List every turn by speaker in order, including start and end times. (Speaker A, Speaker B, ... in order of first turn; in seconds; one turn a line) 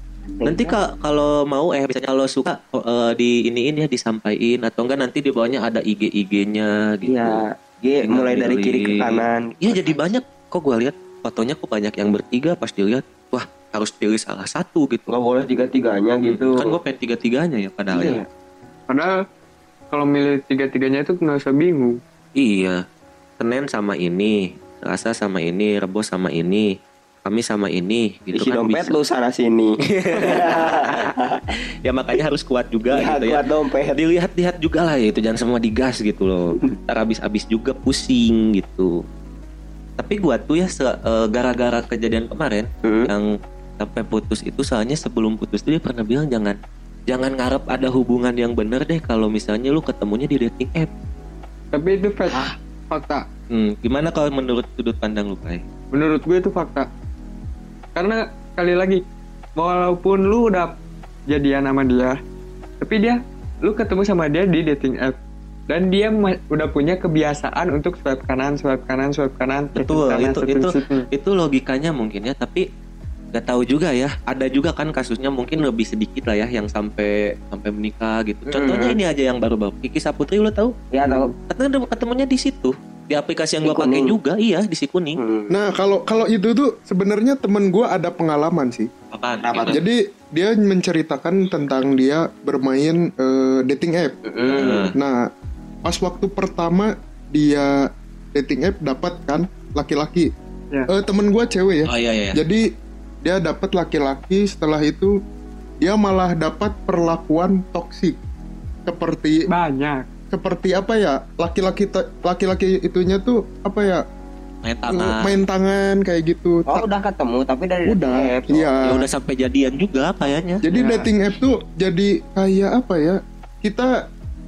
Speaker A: 0.4-0.8
Speaker B: 0.4-7.4
Speaker A: 7.1-10.1
Speaker B: 8.0-15.1
Speaker A: 15.1-16.8
Speaker B: 16.2-18.2
Speaker A: 17.9-18.3
Speaker C: 18.9-19.2
Speaker C: 19.9-22.0
Speaker B: 22.4-22.8
Speaker B: 23.4-26.7
Speaker B: 27.2-29.0
Speaker A: 28.3-31.4
Speaker B: 29.9-31.1
Speaker B: 31.9-33.4
Speaker A: 32.9-34.0
Speaker B: 33.9-39.0
Speaker B: 40.0-50.9
Speaker A: 42.8-43.1
Speaker C: 51.7-53.3
Speaker B: 53.5-55.6
Speaker C: 55.9-56.9
Speaker C: 58.0-59.0
Speaker C: 59.6-60.8
Speaker C: 61.3-62.2
Speaker C: 62.8-65.2
Speaker C: 65.7-71.1
Speaker B: 69.8-72.7
Speaker B: 73.3-80.8
Speaker A: 78.5-79.0
Speaker A: 80.9-81.3
Speaker C: 81.1-81.3
Speaker B: 81.5-85.2
Speaker A: 83.6-84.2
Speaker A: 85.2-85.5
Speaker D: 85.5-88.9
Speaker B: 89.1-89.8
Speaker A: 89.4-89.8
Speaker D: 89.7-94.2
Speaker A: 94.2-94.9
Speaker B: 94.5-94.9
Speaker D: 95.0-95.2
Speaker D: 95.8-100.3
Speaker D: 100.9-102.7
Speaker B: 101.9-102.4
Speaker D: 103.2-105.2
Speaker D: 105.8-108.2
Speaker D: 108.9-109.5
Speaker C: 109.5-110.1
Speaker D: 110.3-114.0
Speaker B: 114.6-115.4
Speaker D: 114.9-116.9
Speaker A: 116.7-118.8
Speaker D: 117.8-119.1
Speaker B: 118.8-120.6
Speaker D: 120.6-124.1
Speaker C: 120.7-121.0